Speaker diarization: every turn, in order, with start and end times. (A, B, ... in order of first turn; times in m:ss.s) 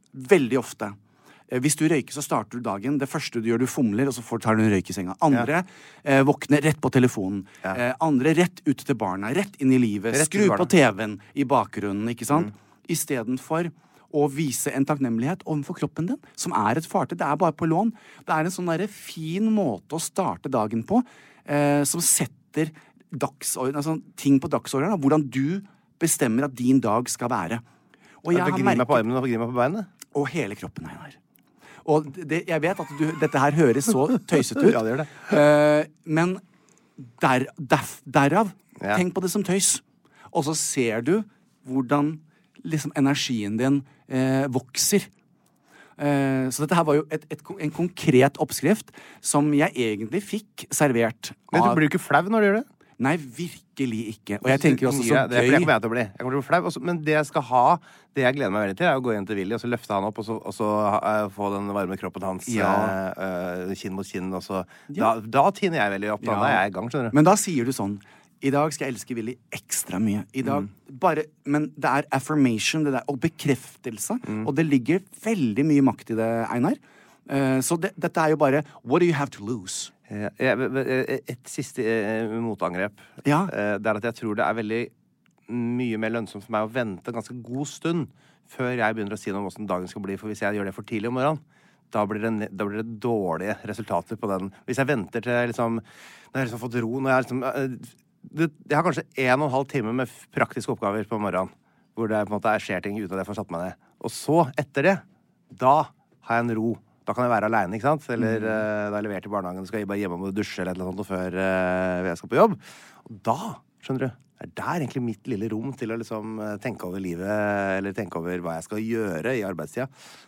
0:00.1-0:01.0 A
0:01.5-0:27.6 A
0:10.1-0:10.7 B
0:28.2-0:29.0 A
0:28.3-0:29.9 B
0:30.1-0:31.2 A
0:31.8-0:36.4 A
0:34.4-0:35.2 B
0:37.0-0:45.1 A
0:46.0-0:51.8 A
0:51.5-0:52.6 B
0:53.0-0:55.7 A
0:54.4-1:07.1 B
1:02.4-1:03.0 A
1:06.2-1:19.9 A
1:20.1-1:24.9 B
1:23.2-1:23.5 A
1:25.5-1:35.8 B
1:36.3-1:59.9 B
1:48.2-1:48.6 A